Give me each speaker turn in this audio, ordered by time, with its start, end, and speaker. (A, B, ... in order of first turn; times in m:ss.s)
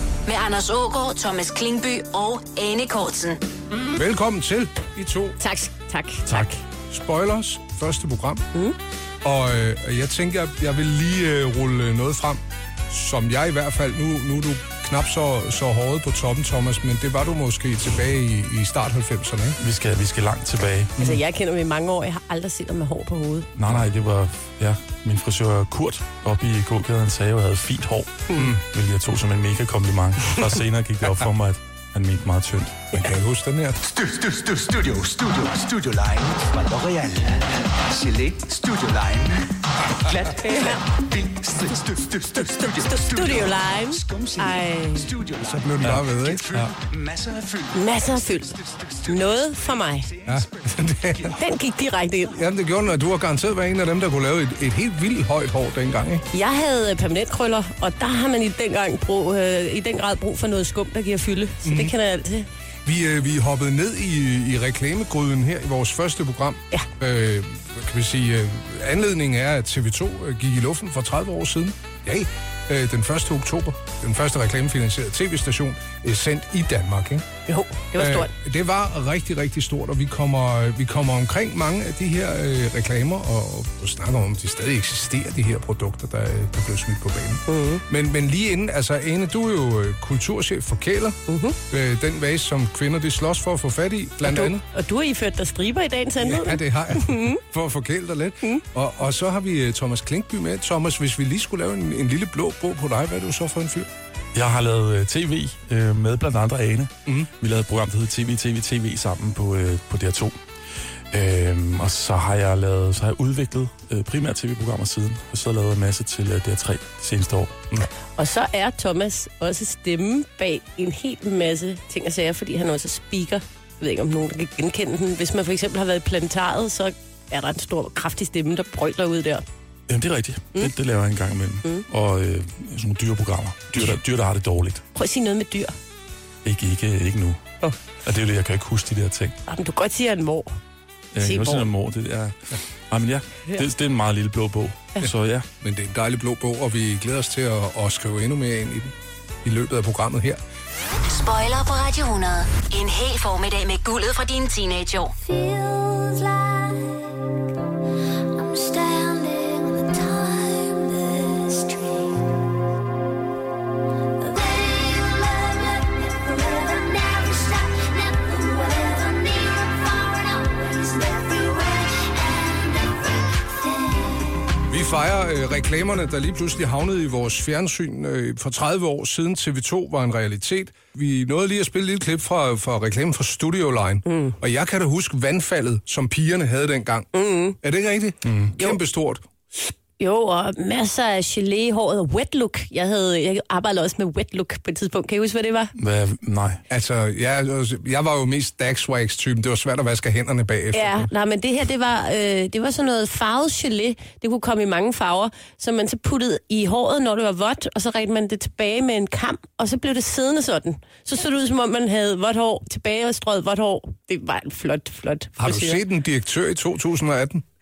0:00.2-0:03.4 A
0:03.9-0:05.4 B
0:05.4-0:06.6 C
0:06.9-0:08.4 B
0:09.2-0:19.6 B
0:19.6-0:21.2 D
0:21.0-0:23.5 C
0:23.5-0:33.0 D
0:32.9-0:33.8 B
0:33.8-0:39.5 E
0:40.0-0:50.7 E
0:40.4-0:40.8 C
0:42.8-0:45.1 C
0:45.4-0:46.4 B
0:45.8-0:46.7 D
0:47.7-0:48.5 C
0:49.0-0:50.1 C
0:50.3-0:51.3 B
0:51.3-0:52.4 C
0:52.4-0:56.2 B
0:56.3-1:02.5 C
1:01.6-1:01.9 B
1:02.8-1:17.2 B
1:17.5-1:18.3 C
1:18.0-1:31.2 B
1:27.5-1:27.8 C
1:31.3-1:31.6 C
1:31.7-1:34.6 B
1:34.2-1:37.4 C
1:36.2-1:43.9 B
1:44.3-1:50.4 D
1:51.1-1:57.6 D
1:58.2-2:09.4 C
2:09.9-2:14.8 D
2:14.9-2:15.7 C
2:16.4-2:17.4 D
2:18.0-2:19.4 D
2:19.5-2:20.5 C
2:21.1-2:22.4 D
2:21.2-2:21.6 C
2:22.9-2:25.4 D
2:25.6-2:28.9 B
2:29.4-2:30.4 B
2:31.0-2:35.1 A
2:35.2-2:37.0 F
2:38.3-2:42.2 F
2:44.2-2:54.3 F
2:54.7-3:07.1 B
3:04.0-3:04.4 C
3:07.1-3:07.6 C
3:07.6-3:09.2 B
3:08.2-3:08.5 D
3:10.0-3:15.7 C
3:15.7-3:16.6 D
3:16.7-3:21.1 B
3:20.7-3:35.8 C
3:35.4-3:37.4 B